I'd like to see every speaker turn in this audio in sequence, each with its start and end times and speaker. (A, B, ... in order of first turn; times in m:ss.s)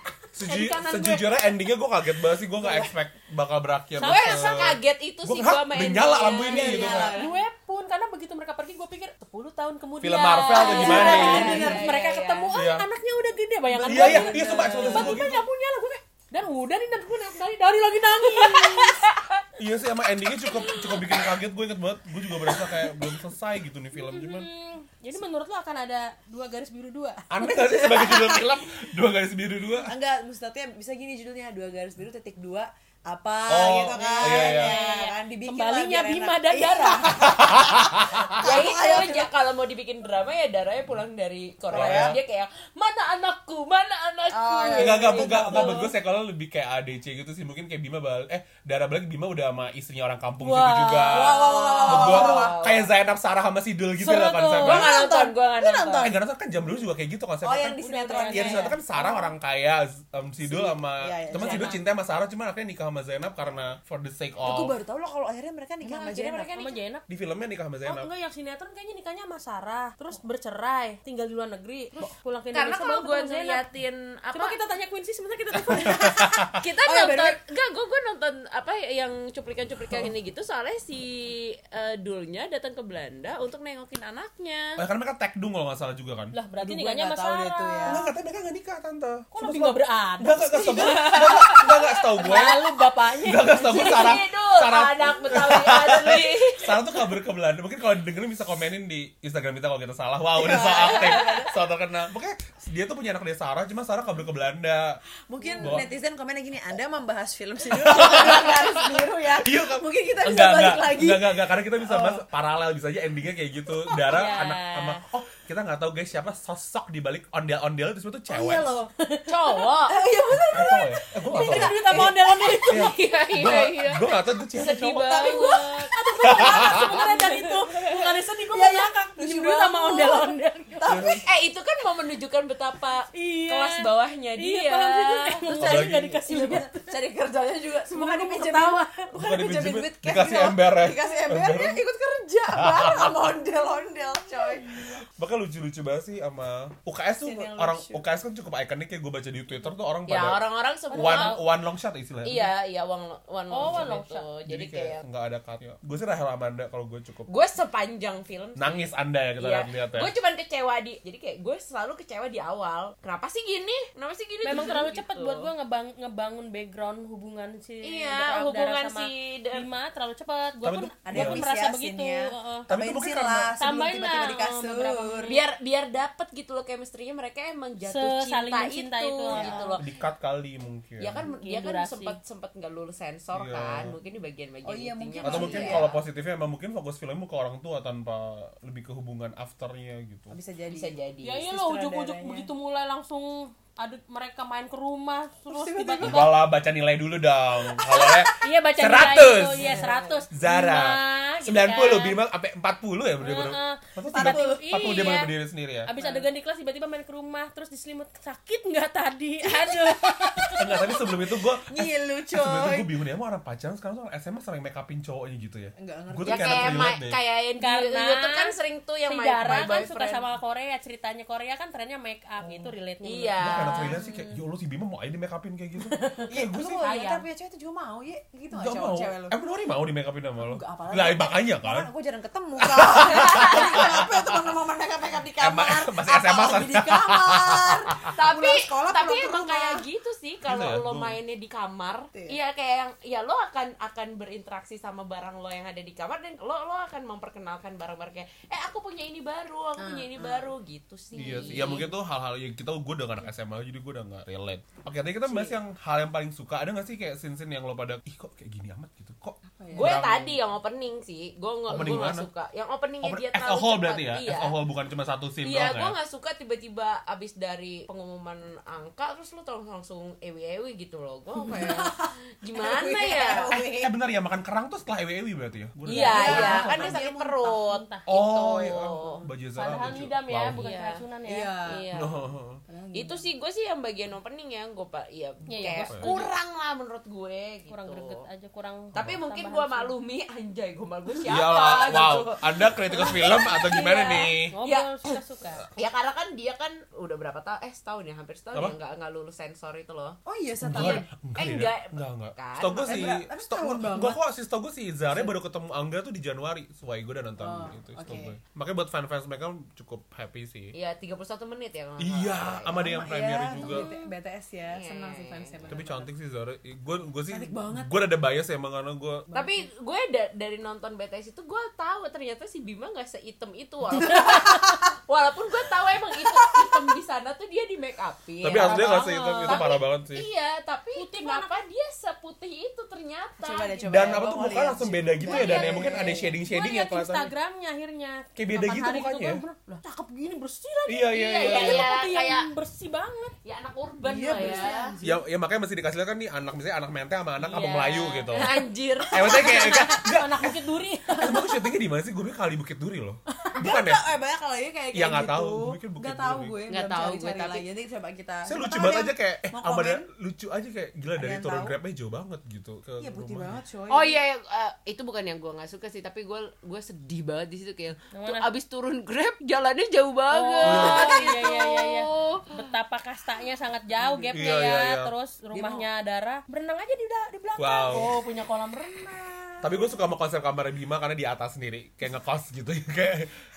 0:00.3-0:07.2 A
0:00.4-0:01.4 B
0:04.0-0:04.7 C
0:04.0-0:07.2 B
0:06.4-0:07.4 D
0:07.1-0:19.4 C
0:10.0-0:11.8 A
0:10.6-0:12.5 B
0:10.7-0:11.9 D
0:12.5-0:12.9 A
0:13.7-0:15.4 A
0:13.8-0:15.2 D
0:19.6-0:24.5 A
0:20.4-0:21.1 C
0:23.9-0:27.2 C
0:27.3-0:29.9 A
0:27.4-0:28.4 D
0:29.8-0:39.3 D
0:33.5-0:34.8 A
0:34.0-0:37.2 C
0:37.1-0:38.5 A
0:38.4-0:45.8 B
0:41.7-0:42.2 A
0:41.7-0:42.2 D
0:44.3-0:45.9 D
0:44.8-0:54.9 A
0:50.4-0:51.6 C
0:51.1-0:52.5 D
0:51.4-0:52.9 B
0:54.0-0:54.5 C
0:54.5-0:56.1 B
0:54.6-0:56.2 D
0:55.9-1:04.7 A
0:57.4-0:59.3 D
0:57.8-0:58.8 C
1:00.4-1:01.8 D
1:01.3-1:01.8 C
1:04.4-1:06.5 D
1:05.8-1:06.8 B
1:06.5-1:07.0 C
1:07.1-1:08.1 A
1:07.8-1:13.6 C
1:12.5-1:14.6 B
1:14.3-1:16.5 C
1:15.7-1:16.6 A
1:16.6-1:24.8 B
1:16.8-1:17.4 D
1:24.8-1:26.3 A
1:26.3-1:28.1 C
1:26.6-1:28.0 D
1:27.8-1:32.6 A
1:29.3-1:34.2 C
1:30.8-1:32.4 B
1:33.2-1:45.0 A
1:33.6-1:36.8 B
1:40.3-1:41.6 D
1:45.3-1:52.2 D
1:45.6-1:45.9 A
1:47.7-1:58.7 A
1:54.1-1:55.0 C
1:58.3-1:58.9 D
1:59.0-1:59.7 C
1:59.2-2:00.0 B
1:59.9-2:02.6 D
2:00.5-2:02.1 A
2:01.3-2:03.0 C
2:02.6-2:07.4 B
2:02.7-2:05.2 A
2:04.9-2:05.9 D
2:05.2-2:10.8 C
2:06.2-2:07.0 A
2:07.9-2:11.2 D
2:10.9-2:11.2 A
2:11.2-2:15.5 B
2:13.1-2:16.9 C
2:15.5-2:16.2 A
2:15.5-2:25.0 D
2:17.9-2:19.1 C
2:19.2-2:21.8 A
2:22.6-2:23.2 A
2:25.2-2:32.5 A
2:27.2-2:28.0 D
2:30.0-2:31.4 B
2:30.9-2:31.4 C
2:32.2-2:35.0 B
2:33.5-2:34.3 C
2:34.5-2:37.3 A
2:37.3-2:45.5 B
2:38.6-2:40.1 A
2:44.4-2:52.7 C
2:47.8-2:49.7 B
2:50.6-2:51.4 A
2:51.0-2:55.3 D
2:52.7-2:53.5 A
2:53.6-2:55.4 C
2:55.2-2:59.8 B
2:57.8-2:59.8 C
2:59.3-3:01.2 A
3:01.0-3:06.0 B
3:01.2-3:02.2 C
3:03.3-3:04.0 A
3:04.6-3:05.9 D
3:05.2-3:10.4 A
3:10.3-3:12.5 D
3:10.7-3:11.4 B
3:11.2-3:16.4 C
3:15.5-3:16.3 D
3:16.0-3:25.9 A
3:17.9-3:22.2 C
3:19.5-3:20.2 D
3:23.2-3:25.3 C
3:24.1-3:24.7 D
3:25.8-3:31.1 C
3:26.0-3:26.3 D
3:29.4-3:32.9 D
3:30.6-3:37.2 A
3:35.8-3:36.9 D
3:36.2-3:40.3 B
3:37.6-3:43.4 C
3:42.4-3:42.8 D
3:43.0-3:44.0 B
3:43.4-3:46.8 A
3:43.9-3:44.4 D
3:45.8-3:47.2 C
3:46.3-3:49.4 D
3:48.5-3:51.9 A
3:50.4-3:59.8 D
3:52.6-3:54.1 A
3:53.1-3:53.9 B
3:55.4-3:58.1 A
3:58.1-4:11.9 B
4:00.4-4:01.2 A
4:09.8-4:10.5 D
4:11.2-4:20.4 A
4:11.3-4:11.9 D
4:15.2-4:15.5 B
4:19.4-4:20.0 D
4:19.7-4:24.6 B
4:21.7-4:22.3 A
4:23.0-4:25.9 A
4:25.4-4:33.5 B
4:31.3-4:33.9 D
4:33.4-4:37.0 A
4:35.8-4:39.2 B
4:36.0-4:37.6 D
4:36.0-4:36.7 C
4:37.6-4:38.0 C
4:38.1-4:40.6 A
4:39.6-4:41.5 C
4:40.6-4:41.0 B
4:41.2-4:41.9 D
4:41.6-4:42.2 B
4:41.9-4:42.6 A
4:42.7-4:43.2 D
4:42.9-4:48.2 B
4:45.5-4:46.3 C
4:45.8-4:46.1 A
4:47.7-4:49.9 C
4:48.9-4:55.1 B
4:51.2-4:54.6 A
4:54.5-4:55.6 C
4:55.7-5:00.2 B
5:00.2-5:01.0 D
5:00.6-5:10.7 A
5:00.7-5:03.2 B
5:02.8-5:04.2 D
5:05.1-5:05.4 D
5:07.4-5:08.4 D
5:10.7-5:12.9 B
5:12.0-5:13.9 A
5:12.7-5:16.1 D
5:13.6-5:14.1 B
5:14.7-5:15.6 B
5:15.7-5:19.2 A
5:17.3-5:18.0 D
5:19.3-5:19.6 D
5:19.3-5:34.3 B
5:24.1-5:24.6 C
5:28.4-5:30.3 A
5:28.5-5:29.7 C
5:31.0-5:31.6 C
5:33.4-5:36.4 D
5:33.9-5:37.3 A
5:35.2-5:36.3 B
5:36.4-5:43.3 C
5:38.4-5:39.4 A
5:40.9-5:41.9 A
5:41.4-5:42.5 B
5:43.4-5:44.9 B
5:44.0-5:45.2 D
5:44.4-5:44.7 C
5:45.0-5:48.6 A
5:47.4-5:51.7 C
5:48.3-5:50.0 B
5:49.1-5:50.6 A
5:51.1-5:54.0 A
5:53.6-6:00.0 D
5:54.9-5:56.6 A
5:56.7-5:57.6 B
5:58.4-6:03.6 A
6:01.2-6:01.8 D
6:03.0-6:04.2 D
6:03.9-6:12.6 B
6:08.1-6:08.5 C
6:10.3-6:19.7 C
6:10.6-6:11.2 A
6:14.0-6:14.3 D
6:14.3-6:15.1 A
6:15.5-6:15.9 D
6:17.6-6:18.1 A
6:19.6-6:23.3 A